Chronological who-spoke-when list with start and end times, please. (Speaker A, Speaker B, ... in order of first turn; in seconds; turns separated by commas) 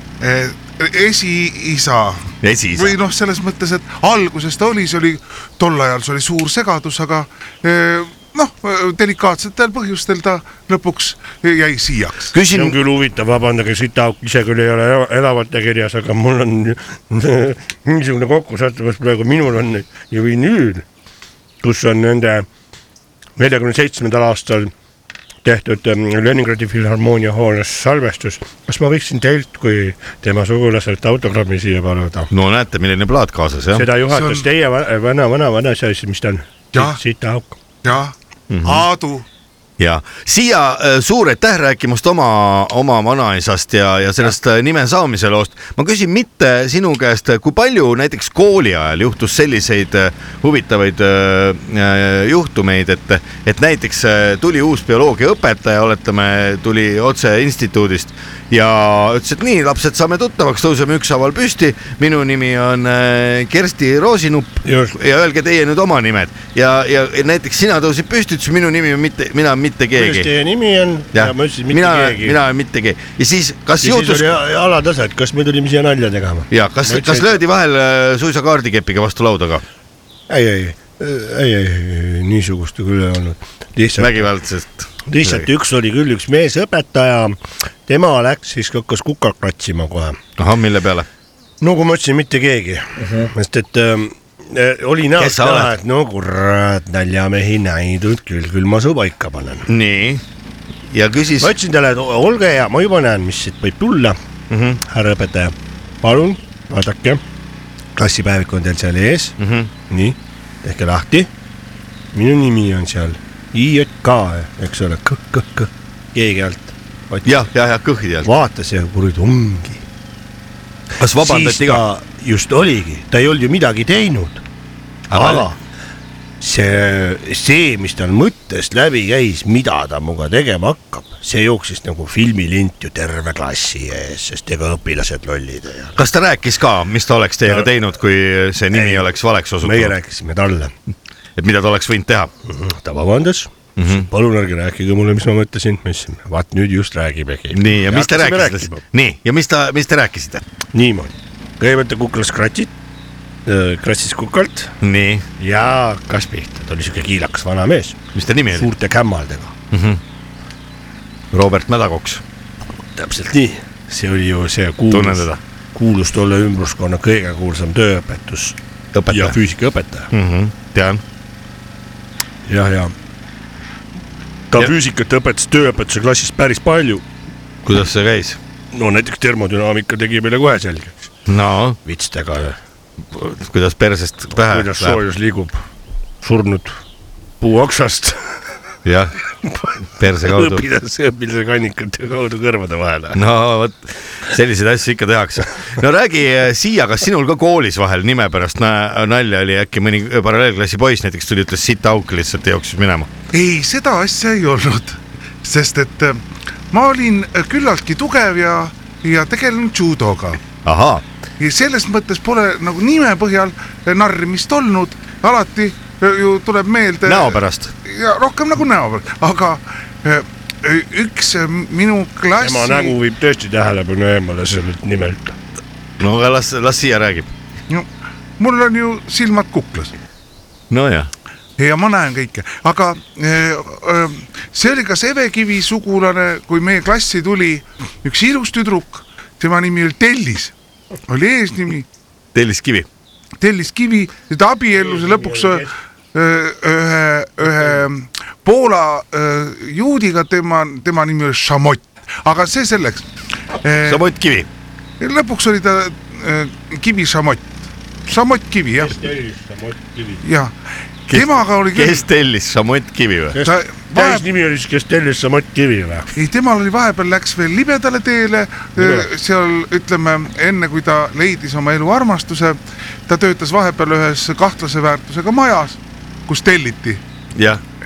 Speaker A: 0.2-12.3, Speaker B: 2.4-3.0, Speaker B: 12.3-12.8, Speaker C: 12.5-20.8, Speaker C: 21.6-22.4, Speaker C: 23.4-24.7, Speaker C: 25.4-32.3, Speaker B: 32.3-33.9, Speaker C: 33.7-37.6, Speaker A: 34.1-34.4, Speaker A: 37.8-39.2, Speaker B: 38.5-38.9, Speaker B: 39.8-70.3, Speaker C: 64.6-65.0, Speaker C: 69.9-72.4, Speaker B: 71.1-74.4, Speaker C: 73.8-77.4, Speaker B: 76.5-79.6, Speaker C: 80.3-84.3, Speaker B: 84.0-85.5, Speaker C: 85.1-90.2, Speaker B: 90.4-91.1, Speaker C: 91.6-99.7, Speaker B: 95.2-95.7, Speaker B: 99.7-100.2, Speaker B: 100.9-101.5, Speaker C: 101.4-104.2, Speaker B: 104.5-104.8, Speaker C: 104.8-107.2, Speaker C: 108.0-109.3, Speaker B: 109.4-109.7, Speaker C: 109.9-111.3, Speaker C: 112.1-117.4, Speaker B: 117.2-118.3, Speaker C: 118.2-119.8, Speaker B: 121.0-121.8, Speaker C: 121.2-124.4, Speaker B: 125.1-125.5, Speaker C: 125.1-125.6, Speaker C: 126.4-136.0, Speaker B: 136.0-139.9, Speaker C: 138.7-140.7, Speaker B: 141.4-142.3, Speaker C: 142.4-148.8, Speaker B: 143.8-144.1, Speaker B: 147.5-150.4, Speaker C: 150.7-152.7, Speaker C: 153.4-154.7, Speaker B: 154.8-155.2, Speaker C: 155.4-158.0, Speaker B: 158.1-158.7, Speaker C: 158.5-159.5, Speaker B: 159.7-160.0, Speaker B: 161.3-162.2, Speaker C: 162.9-168.6, Speaker B: 164.9-165.4, Speaker B: 168.9-169.4, Speaker C: 169.1-170.1, Speaker B: 170.1-171.0, Speaker C: 172.5-172.9, Speaker C: 174.5-177.0, Speaker B: 177.6-178.4, Speaker C: 178.7-181.0, Speaker B: 181.3-181.8, Speaker C: 181.8-182.6, Speaker B: 183.1-185.0, Speaker C: 184.3-185.6, Speaker C: 186.2-186.8, Speaker C: 187.4-188.2, Speaker B: 188.8-189.1, Speaker C: 189.5-193.2, Speaker B: 189.9-190.6, Speaker B: 193.1-203.1, Speaker A: 203.3-210.4, Speaker B: 210.6-211.0, Speaker A: 211.4-222.9, Speaker B: 217.0-217.7, Speaker C: 222.4-225.3, Speaker B: 226.0-227.3, Speaker A: 228.4-229.9, Speaker B: 230.7-231.1, Speaker A: 231.6-240.5, Speaker A: 241.1-241.8, Speaker B: 242.3-242.9, Speaker A: 243.4-253.0, Speaker C: 244.7-245.7, Speaker A: 253.6-254.0, Speaker B: 253.8-254.5, Speaker A: 255.0-257.5, Speaker A: 258.1-258.9, Speaker C: 258.8-260.2, Speaker A: 260.2-260.5, Speaker A: 261.1-262.0, Speaker B: 261.1-263.4, Speaker C: 263.3-266.1, Speaker A: 263.4-264.2, Speaker A: 266.1-277.0, Speaker C: 268.8-269.1, Speaker B: 277.3-277.6